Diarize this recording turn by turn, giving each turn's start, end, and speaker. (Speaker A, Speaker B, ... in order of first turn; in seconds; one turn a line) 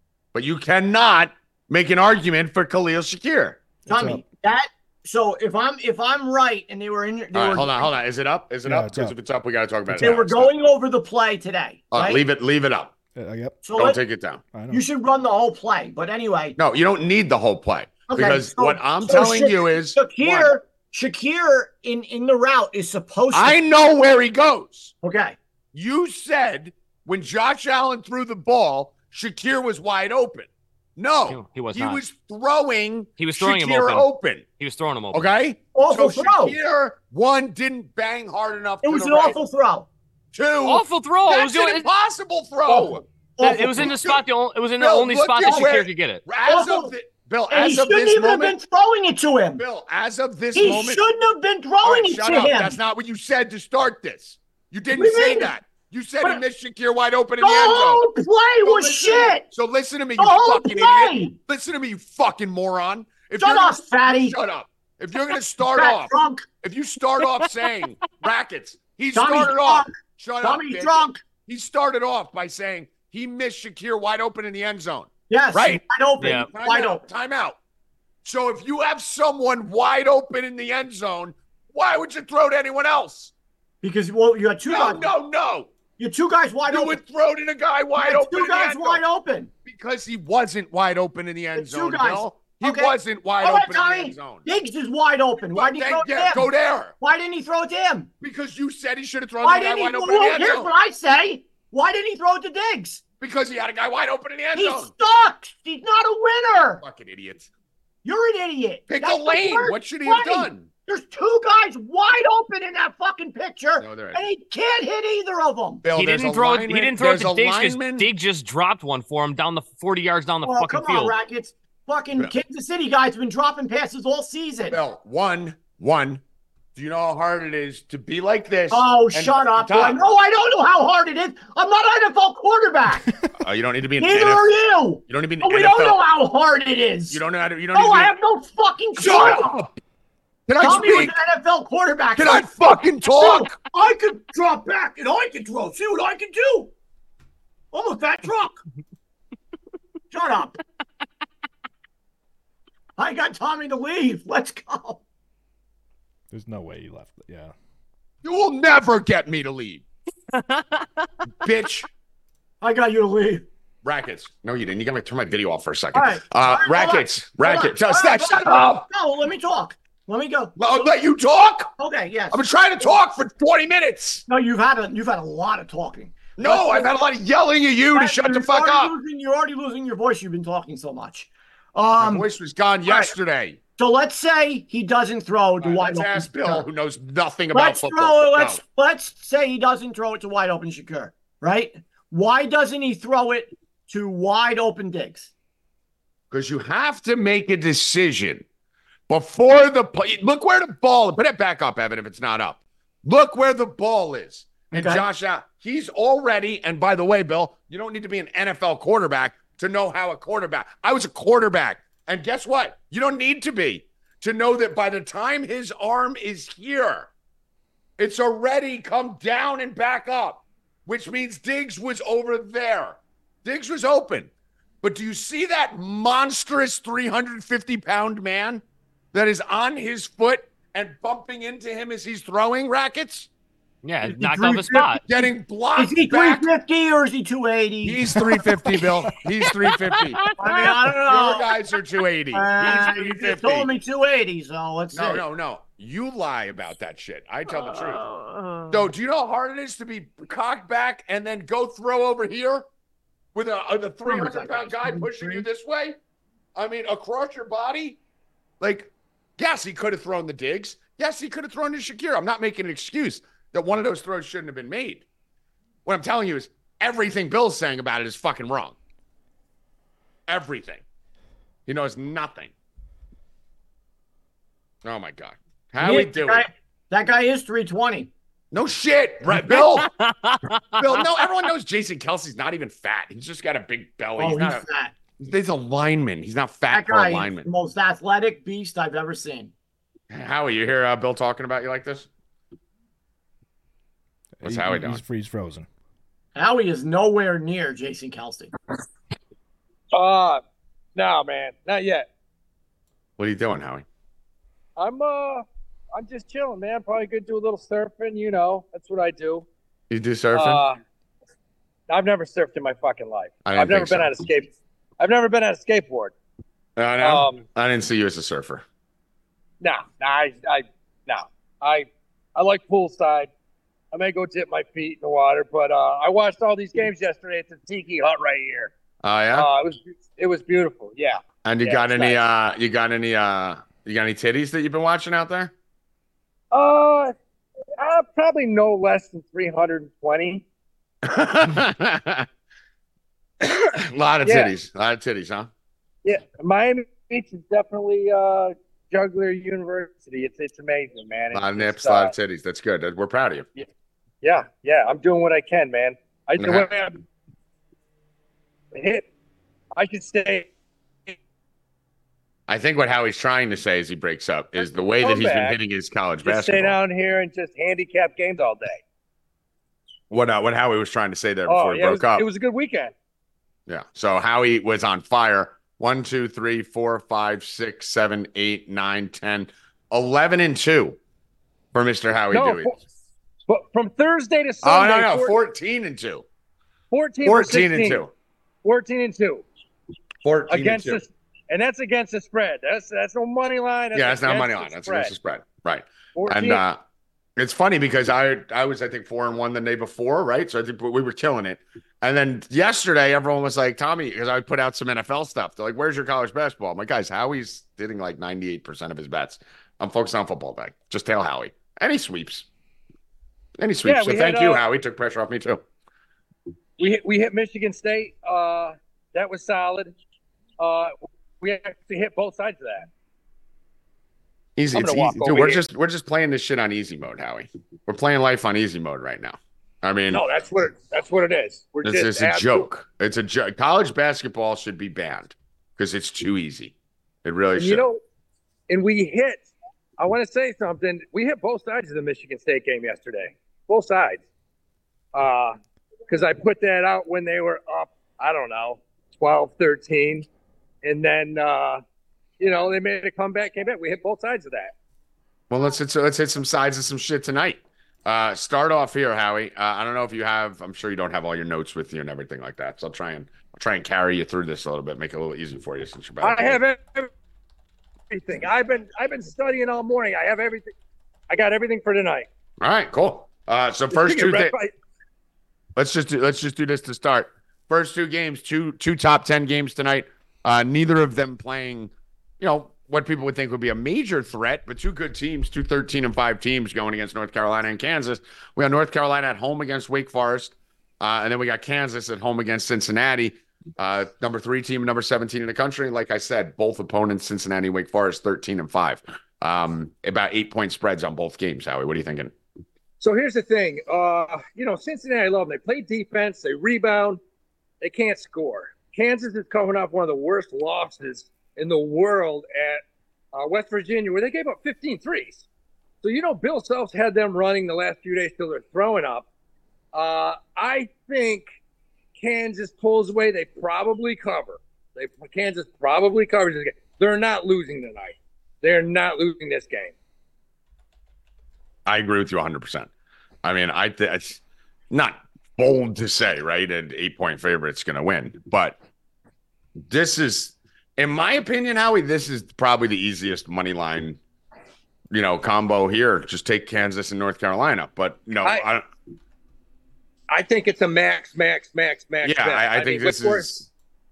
Speaker A: 0.3-3.6
Speaker B: 3.9-4.2
Speaker C: 3.9-7.9
Speaker A: 7.3-10.5
Speaker B: 8.6-9.2
Speaker B: 9.9-10.2
Speaker C: 10.0-12.2
Speaker A: 11.9-12.9
Speaker B: 13.1-13.6
Speaker C: 13.6-14.0
Speaker A: 13.8-14.4
Speaker B: 14.5-14.8
Speaker C: 14.7-16.6
Speaker A: 16.6-20.5
Speaker C: 18.1-23.6
Speaker A: 23.3-24.9
Speaker C: 25.0-25.4
Speaker A: 25.7-34.5
Speaker D: 31.3-32.0
Speaker D: 33.2-34.0
Speaker D: 34.6-35.3
Speaker A: 35.1-39.4
Speaker C: 35.7-36.5
Speaker C: 38.8-39.9
Speaker A: 40.3-43.0
Speaker D: 40.6-41.9
Speaker C: 42.7-44.0
Speaker D: 43.4-46.2
Speaker A: 43.8-44.2
Speaker A: 44.8-48.5
Speaker C: 45.4-45.8
Speaker C: 46.4-46.9
Speaker C: 47.5-49.6
Speaker A: 49.6-51.0
Speaker C: 50.5-52.8
Speaker A: 51.8-58.0
Speaker C: 54.9-55.5
Speaker C: 57.4-59.4
Speaker A: 58.6-77.6
Speaker C: 60.2-61.3
Speaker C: 63.4-64.3
Speaker C: 65.7-66.5
Speaker C: 69.1-69.9
Speaker C: 70.4-71.2
Speaker C: 75.3-77.0
Speaker D: 76.2-76.5
Speaker A: 78.2-83.3
Speaker C: 83.8-85.1
Speaker A: 84.7-85.7
Speaker C: 86.0-87.0
Speaker A: 86.7-89.0
Speaker C: 88.0-89.5
Speaker A: 89.6-94.5
Speaker C: 91.5-96.5
Speaker A: 95.5-96.9
Speaker C: 97.0-98.1
Speaker A: 98.2-100.7
Speaker C: 99.4-103.0
Speaker A: 103.2-104.9
Speaker C: 104.5-106.8
Speaker A: 106.8-107.5
Speaker C: 108.0-115.8
Speaker A: 108.9-110.7
Speaker A: 113.8-114.2
Speaker A: 115.8-118.1
Speaker D: 115.9-121.1
Speaker C: 120.4-124.8
Speaker A: 124.7-126.2
Speaker A: 126.7-130.0
Speaker C: 128.7-133.2
Speaker A: 133.4-134.5
Speaker C: 134.0-137.2
Speaker A: 135.1-136.0
Speaker A: 137.1-138.1
Speaker C: 137.7-139.5
Speaker A: 138.9-139.7
Speaker A: 140.5-141.2
Speaker C: 140.6-142.5
Speaker A: 142.2-143.5
Speaker C: 143.1-146.7
Speaker C: 147.7-148.6
Speaker C: 150.1-150.6
Speaker C: 153.0-155.0
Speaker B: 156.3-157.5
Speaker A: 158.2-159.8
Speaker D: 160.3-161.1
Speaker A: 161.4-161.9
Speaker C: 162.6-163.4
Speaker A: 163.8-168.8
Speaker C: 165.9-170.5
Speaker A: 170.6-171.7
Speaker C: 171.8-173.0
Speaker A: 172.3-174.2
Speaker C: 174.3-176.9
Speaker A: 176.4-178.9
Speaker C: 177.9-182.3
Speaker A: 182.0-183.6
Speaker C: 182.8-183.1
Speaker C: 183.8-186.7
Speaker A: 185.6-188.6
Speaker C: 187.5-195.3
Speaker A: 196.3-198.4
Speaker A: 199.1-217.1
Speaker C: 204.7-205.0
Speaker A: 218.0-224.3
Speaker A: 224.8-233.3
Speaker D: 233.8-235.0
Speaker C: 234.0-235.0
Speaker A: 235.0-236.5
Speaker C: 235.8-238.2
Speaker A: 237.8-240.3
Speaker D: 239.4-240.8
Speaker C: 240.4-241.5
Speaker A: 240.8-243.7
Speaker C: 242.3-245.2
Speaker A: 244.9-248.0
Speaker D: 248.1-248.7
Speaker A: 248.7-252.7
Speaker A: 253.3-256.0
Speaker C: 254.1-255.4
Speaker A: 256.6-258.0
Speaker A: 258.6-265.1
Speaker A: 265.8-268.8
Speaker A: 270.3-270.8
Speaker A: 271.6-272.5
Speaker A: 274.8-276.4
Speaker C: 275.8-278.1
Speaker A: 278.5-279.9
Speaker D: 279.3-281.0
Speaker A: 280.8-284.6
Speaker C: 284.2-284.9
Speaker A: 285.2-287.5
Speaker C: 286.7-289.5
Speaker A: 290.1-292.1
Speaker B: 294.4-295.7
Speaker A: 294.4-295.0
Speaker C: 296.3-298.5
Speaker E: 299.9-300.4
Speaker E: 300.9-302.1
Speaker A: 303.2-303.8
Speaker E: 304.8-309.5
Speaker A: 309.9-310.6
Speaker E: 310.3-310.8
Speaker E: 311.9-316.1
Speaker A: 313.4-314.1
Speaker A: 316.8-318.6
Speaker E: 317.0-317.4
Speaker E: 319.6-323.3
Speaker E: 323.9-328.7
Speaker A: 329.0-329.5
Speaker E: 329.3-332.2
Speaker A: 331.4-335.5
Speaker E: 336.5-337.1
Speaker E: 337.8-340.4
Speaker A: 341.0-342.3
Speaker A: 343.4-345.5
Speaker E: 344.2-344.5
Speaker E: 346.0-352.1
Speaker A: 351.3-353.5
Speaker E: 354.2-357.0
Speaker A: 356.4-356.7
Speaker E: 358.7-359.1
Speaker E: 359.8-360.5
Speaker A: 362.5-366.8
Speaker E: 365.0-365.6
Speaker E: 366.2-368.8
Speaker A: 370.1-372.2
Speaker E: 371.5-372.9
Speaker A: 373.7-381.0
Speaker A: 381.7-382.7
Speaker E: 382.3-382.8
Speaker E: 383.5-385.4
Speaker A: 384.6-386.2
Speaker E: 386.9-388.0
Speaker A: 387.2-388.1
Speaker E: 388.6-389.4
Speaker A: 390.2-391.0
Speaker E: 390.5-395.1
Speaker A: 393.9-396.8
Speaker E: 396.1-396.6
Speaker A: 397.4-412.5
Speaker A: 413.6-415.6
Speaker E: 413.8-414.6
Speaker E: 416.8-419.9
Speaker E: 420.6-422.9
Speaker A: 424.6-430.2
Speaker E: 424.7-425.6
Speaker E: 430.1-432.6
Speaker A: 431.8-437.8
Speaker E: 437.6-438.0
Speaker E: 438.7-444.2
Speaker E: 445.1-445.6
Speaker E: 446.1-450.3
Speaker E: 450.8-451.8
Speaker E: 452.4-454.7
Speaker A: 455.5-466.6
Speaker E: 466.2-467.1
Speaker E: 468.1-470.7
Speaker E: 471.3-472.3
Speaker A: 472.6-474.5
Speaker E: 473.9-474.7
Speaker A: 475.8-502.3
Speaker E: 503.0-507.2
Speaker E: 507.8-512.8
Speaker E: 513.3-515.4
Speaker E: 516.0-519.3
Speaker E: 519.9-521.5
Speaker E: 522.1-529.9
Speaker A: 531.9-532.9
Speaker A: 533.4-538.8
Speaker A: 539.9-544.2
Speaker A: 545.1-548.8
Speaker E: 550.3-553.5
Speaker A: 552.2-553.7